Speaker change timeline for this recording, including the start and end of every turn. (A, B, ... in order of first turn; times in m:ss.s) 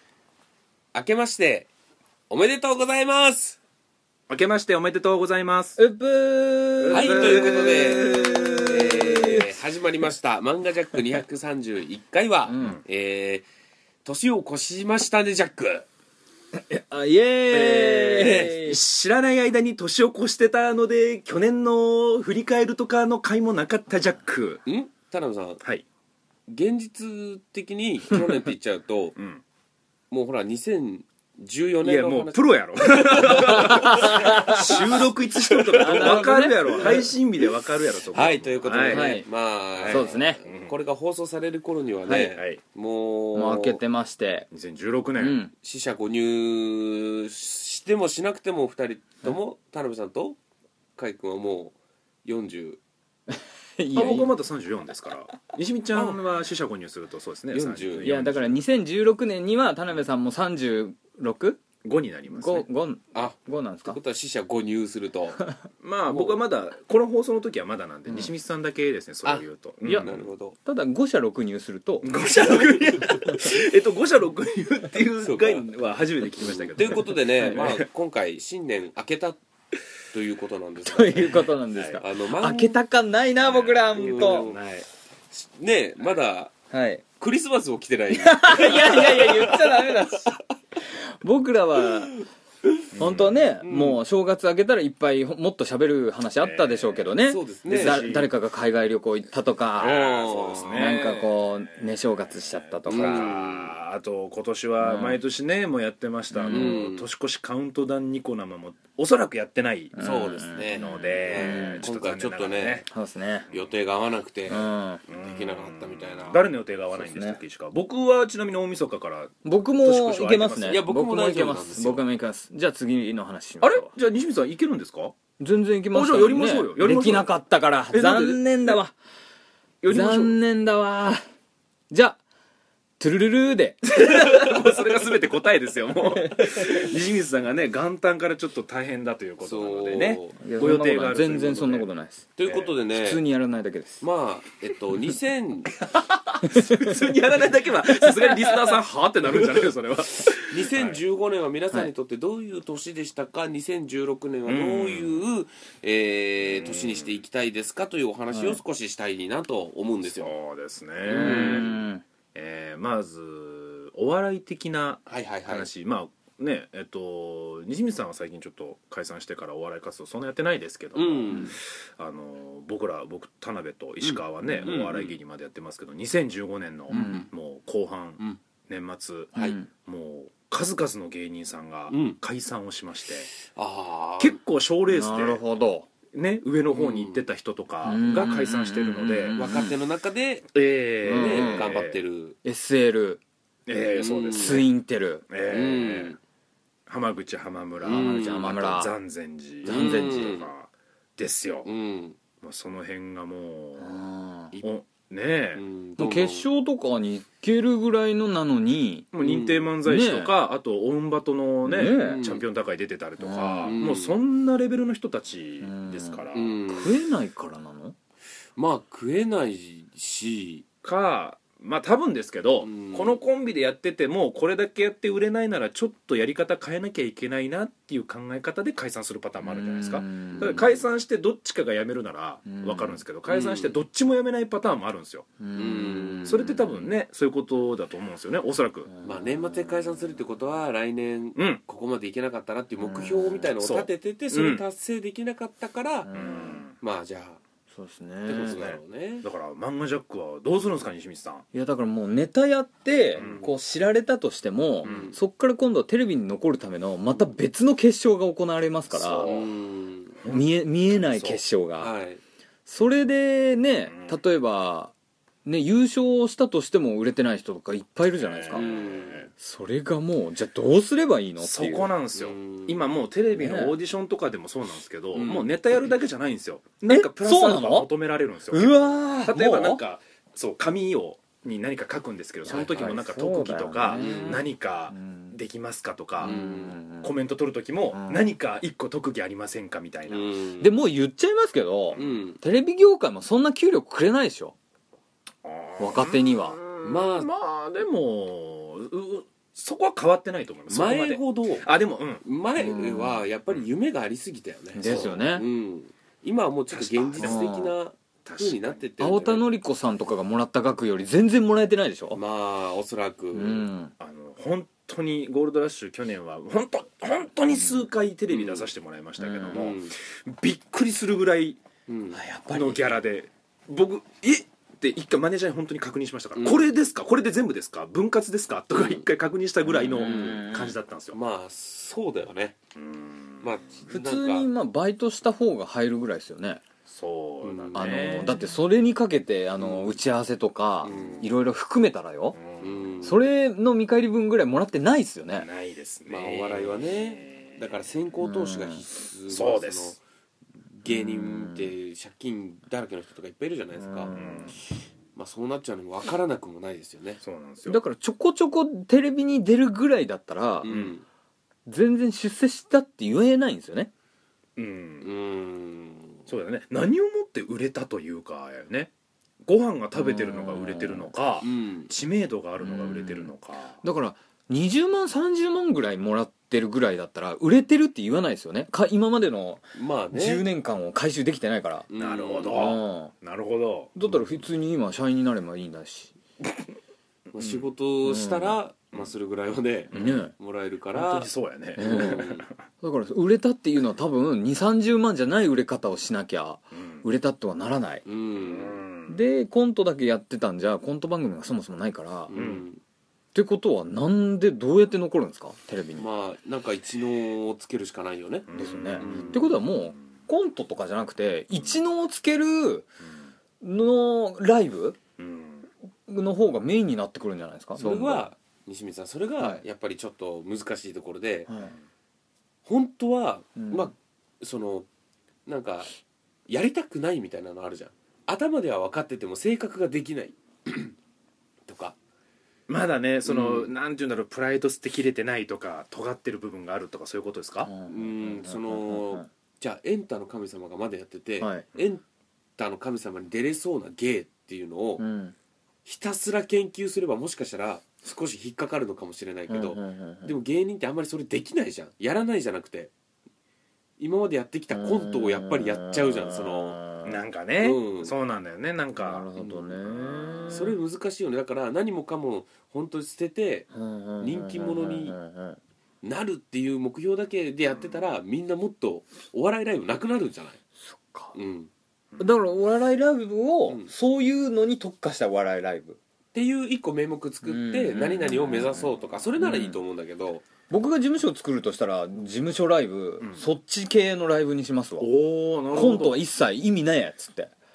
0:00.9-0:01.7 A
0:02.3-0:03.6 A
0:04.3-0:05.8 B
0:05.8-0:09.5 C
0:06.8-0:08.7 B
0:06.9-0:13.4 A
0:12.5-0:12.8 C
0:14.0-0:15.9 A
0:16.5-0:18.8 C
0:17.5-0:24.6 B
0:24.7-0:25.6 A
0:26.5-0:29.2 A
0:29.2-0:29.4 B
0:30.1-0:37.1 A
0:31.8-0:39.2 B
0:33.3-0:35.0 C
0:35.8-0:37.1 C
0:38.1-0:43.8 A
0:38.9-0:39.3 C
0:39.8-0:40.8 B
0:39.9-0:40.4 C
0:42.1-0:42.3 C
0:42.4-0:42.6 B
0:43.4-0:44.5 C
0:44.5-0:45.4 B
0:45.2-0:45.5 C
0:45.6-0:50.4 A
0:51.0-0:52.8 A
0:53.3-0:54.3 C
0:53.9-0:58.6 B
0:55.9-0:56.2 A
0:57.5-0:58.3 A
0:58.0-1:01.6 C
1:01.8-1:02.7 B
1:02.3-1:04.0 C
1:03.1-1:05.4 A
1:05.8-1:10.3 B
1:06.1-1:06.4 A
1:08.1-1:08.3 C
1:09.2-1:10.6 A
1:09.8-1:12.1 C
1:12.0-1:17.8 B
1:12.3-1:13.2 A
1:15.2-1:15.7 A
1:16.4-1:19.4 A
1:20.1-1:21.4 A
1:20.8-1:24.5 C
1:21.8-1:22.0 B
1:22.0-1:22.8 A
1:23.4-1:24.9 B
1:24.0-1:24.6 A
1:25.3-1:26.5 A
1:26.7-1:27.0 C
1:27.2-1:30.4 A
1:28.1-1:32.2 C
1:32.6-1:32.9 A
1:33.0-1:33.4 B
1:33.0-1:40.2 C
1:33.6-1:34.0 A
1:36.4-1:37.0 B
1:37.2-1:38.1 A
1:37.7-1:38.3 B
1:39.8-1:42.0 B
1:39.8-1:41.3 A
1:40.7-1:43.4 C
1:42.8-1:50.0 B
1:42.9-1:43.7 A
1:44.8-1:45.2 C
1:46.3-1:46.8 C
1:46.5-1:47.1 A
1:50.0-1:51.9 C
1:50.0-1:52.8 A
1:50.7-1:52.9 B
1:52.9-1:53.5 C
1:53.5-1:56.5 A
1:54.5-1:55.0 C
1:55.1-2:00.8 B
1:57.0-1:57.4 C
1:59.4-2:03.9 C
2:00.7-2:02.0 A
2:03.6-2:05.2 B
2:05.4-2:09.0 C
2:05.9-2:07.3 B
2:07.9-2:08.8 B
2:09.8-2:10.4 B
2:09.9-2:11.2 C
2:11.9-2:12.2 C
2:13.0-2:14.8 C
2:13.9-2:21.9 B
2:16.1-2:16.9 C
2:19.4-2:20.4 A
2:19.9-2:22.3 C
2:22.4-2:23.2 A
2:22.4-2:22.7 B
2:22.9-2:24.0 C
2:24.0-2:25.8 A
2:25.9-2:31.0 B
2:26.4-2:27.0 C
2:28.0-2:28.6 C
2:30.3-2:40.4 A
2:34.5-2:35.2 B
2:36.4-2:37.2 B
2:38.3-2:38.6 C
2:40.0-2:41.8 B
2:41.0-2:41.7 A
2:41.2-2:42.0 C
2:42.3-3:03.3 B
2:45.1-2:45.7 A
2:51.0-2:51.6 A
2:54.0-2:55.2 A
2:56.9-2:57.3 A
2:56.9-2:57.3 C
2:59.4-2:59.6 A
2:59.4-2:59.7 C
3:01.9-3:02.2 A
3:03.4-3:04.4 A
3:04.2-3:05.4 B
3:04.9-3:05.9 C
3:06.1-3:09.4 B
3:06.7-3:07.2 A
3:07.8-3:09.8 C
3:09.3-3:10.5 A
3:10.5-3:12.0 B
3:11.0-3:11.7 C
3:11.1-3:12.4 A
3:12.4-3:13.2 C
3:13.7-3:14.7 B
3:13.9-3:14.7 A
3:14.4-3:15.2 C
3:15.3-3:16.2 B
3:15.5-3:16.2 A
3:16.9-3:21.7 B
3:17.8-3:18.5 A
3:17.8-3:18.9 C
3:19.6-3:20.5 A
3:19.7-3:20.4 C
3:21.6-3:22.2 A
3:22.4-3:24.0 B
3:23.8-3:24.5 C
3:24.6-3:25.6 B
3:25.6-3:26.5 A
3:26.0-3:29.1 C
3:29.1-3:36.6 B
3:29.2-3:29.7 A
3:29.8-3:30.3 C
3:31.6-3:32.2 C
3:31.9-3:32.4 A
3:33.2-3:33.8 C
3:33.6-3:34.2 A
3:35.6-3:38.0 C
3:36.3-3:37.0 A
3:38.6-3:40.6 A
3:40.8-3:55.3 B
3:42.6-3:43.2 A
3:49.4-3:50.8 C
3:50.3-3:50.7 A
3:52.5-3:53.0 C
3:53.3-3:53.8 A
3:55.4-3:56.9 C
3:55.6-3:56.6 A
3:56.2-3:58.9 B
3:58.9-4:00.0 C
3:59.0-4:07.4 A
4:01.4-4:01.6 B
4:02.8-4:03.5 C
4:03.6-4:04.6 B
4:06.1-4:06.6 C
4:06.1-4:06.8 B
4:07.7-4:08.6 C
4:08.3-4:09.3 A
4:08.4-4:11.5 B
4:11.5-4:19.3 C
4:13.2-4:13.5 B
4:13.2-4:13.5 A
4:14.8-4:15.2 A
4:14.8-4:15.1 B
4:18.9-4:19.5 B
4:19.2-4:20.2 A
4:20.2-4:21.4 B
4:20.3-4:21.9 C
4:21.8-4:22.2 A
4:22.7-4:24.9 C
4:23.9-4:24.2 B
4:25.4-4:28.8 C
4:28.2-4:29.3 B
4:28.5-4:29.3 A
4:29.3-4:31.9 C
4:31.4-4:46.4 B
4:32.1-4:32.8 A
4:33.3-4:33.8 C
4:35.2-4:35.5 A
4:36.9-4:37.9 C
4:38.5-4:39.8 C
4:42.5-4:45.4 C
4:43.9-4:44.4 A
4:46.2-4:46.8 A
4:46.2-4:47.1 C
4:47.0-4:50.4 B
4:47.9-4:48.3 C
4:50.1-4:50.8 A
4:50.6-4:54.6 C
4:51.9-4:52.2 B
4:52.0-4:52.4 A
4:55.4-5:02.2 B
4:55.8-4:56.6 C
4:56.8-4:57.3 A
5:00.7-5:01.7 A
5:02.2-5:09.5 A
5:02.6-5:03.2 C
5:04.8-5:05.5 C
5:06.7-5:07.5 B
5:07.2-5:07.7 C
5:08.2-5:08.9 B
5:09.0-5:12.2 C
5:12.1-5:13.7 A
5:13.3-5:13.9 C
5:14.0-5:21.6 B
5:17.5-5:17.9 C
5:18.3-5:18.7 A
5:19.2-5:19.7 C
5:19.4-5:19.9 A
5:21.9-5:22.2 A
5:22.1-5:22.8 C
5:22.5-5:31.2 B
5:26.4-5:26.7 A
5:28.8-5:29.0 A
5:29.6-5:30.8 C
5:29.8-5:30.5 A
5:31.1-5:32.6 A
5:32.8-5:33.5 B
5:33.4-5:34.5 A
5:33.9-5:36.6 C
5:36.9-5:38.4 B
5:37.4-5:38.4 A
5:37.8-5:42.4 C
5:39.6-5:40.0 A
5:40.8-5:41.3 A
5:40.9-5:41.3 B
5:42.4-5:43.0 B
5:42.6-5:43.2 A
5:43.0-5:45.5 C
5:45.4-5:47.6 B
5:46.1-5:50.0 A
5:48.2-5:48.8 C
5:49.3-5:50.0 B
5:50.7-5:54.2 A
5:50.9-5:51.7 C
5:53.8-5:54.5 C
5:54.1-5:54.6 B
5:55.2-5:57.2 A
5:57.2-5:57.8 B
5:57.7-6:00.7 C
6:00.6-6:01.0 A
6:00.7-6:01.0 B
6:01.7-6:03.9 C
6:04.6-6:05.1 B
6:05.0-6:06.2 A
6:06.3-6:08.9 B
6:09.4-6:13.8 B
6:10.0-6:11.1 C
6:11.4-6:11.9 A
6:12.6-6:21.9 C
6:19.8-6:20.5 A
6:21.9-6:22.7 A
6:22.0-6:24.0 B
6:22.5-6:23.1 C
6:24.0-6:26.2 C
6:27.3-6:32.5 A
6:27.4-6:27.7 B
6:28.1-6:28.6 C
6:29.9-6:30.3 B
6:29.9-6:30.3 C
6:30.9-6:32.5 B
6:31.8-6:32.3 C
6:32.8-6:38.0 C
6:38.1-6:38.8 A
6:38.3-6:39.2 B
6:39.1-6:42.3 C
6:42.3-6:42.8 A
6:42.3-6:42.7 B
6:43.3-6:46.1 C
6:46.0-6:49.6 A
6:48.5-6:49.5 B
6:48.6-6:52.9 C
6:53.6-6:55.0 C
6:55.2-6:55.7 B
6:56.1-6:58.3 C
6:57.8-7:01.5 A
7:01.5-7:01.7 C
7:02.6-7:04.9 A
7:03.6-7:03.9 C
7:05.5-7:05.9 A
7:06.5-7:11.0 A
7:11.7-7:12.0 A
7:12.7-7:17.7 B
7:13.3-7:13.7 A
7:17.6-7:19.3 C
7:17.9-7:22.0 A
7:21.4-7:21.6 C
7:22.6-7:25.1 A
7:25.0-7:25.4 C
7:25.8-7:32.9 A
7:29.5-7:30.3 C
7:34.0-7:36.8 A
7:34.7-7:37.2 C
7:37.0-7:39.3 B
7:37.6-7:38.1 A
7:39.0-7:40.8 C
7:39.4-7:39.7 A
7:39.8-7:40.7 B
7:40.5-7:45.2 A
7:43.7-7:45.6 C
7:46.0-7:50.6 A
7:50.8-7:51.4 C
7:51.3-7:51.7 A
7:52.2-7:56.0 C
7:56.3-8:00.5 A
7:57.4-7:59.8 C
8:00.7-8:05.1 C
8:05.0-8:06.2 B
8:05.7-8:07.5 C